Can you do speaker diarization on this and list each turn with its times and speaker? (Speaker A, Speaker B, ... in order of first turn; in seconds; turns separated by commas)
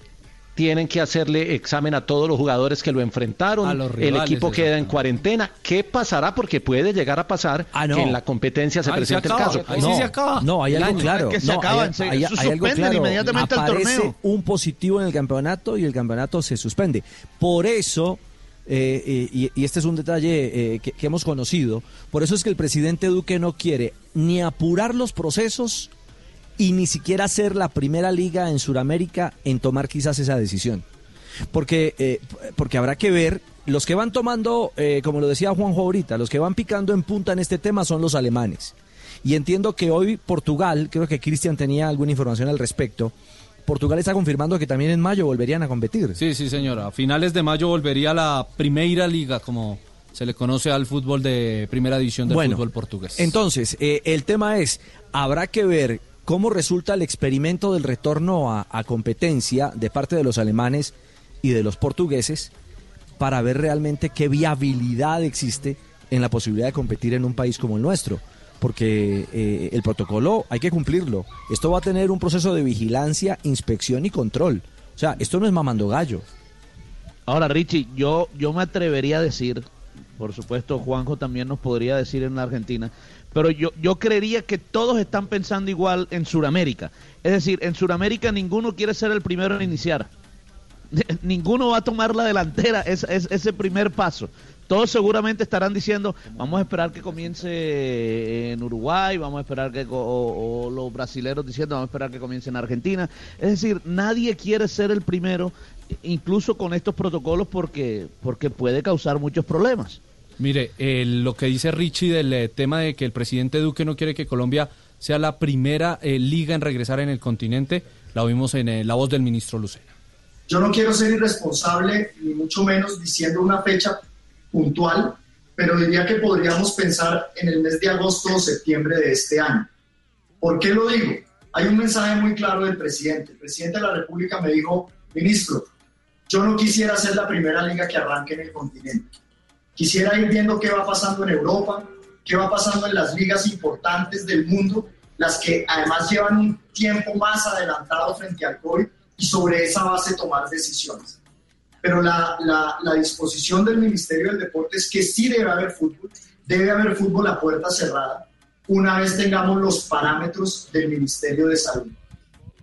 Speaker A: 0.6-10.1, Speaker B: 3.6-5.0, Speaker C: 7.7-8.2, Speaker B: 8.8-11.1, Speaker C: 9.5-25.9, Speaker D: 10.7-14.1, Speaker C: 26.6-30.9, Speaker C: 31.5-43.1, Speaker C: 43.6-46.2, Speaker B: 46.2-53.4, Speaker C: 52.3-62.5, Speaker C: 63.2-76.2, Speaker D: 77.3-79.7, Speaker D: 80.2-90.1, Speaker D: 90.9-110.0, Speaker B: 110.4-119.9, Speaker E: 120.5-124.0, Speaker E: 124.5-129.7, Speaker E: 130.4-135.7, Speaker E: 136.3-139.1, Speaker E: 139.8-151.2, Speaker E: 151.8-161.9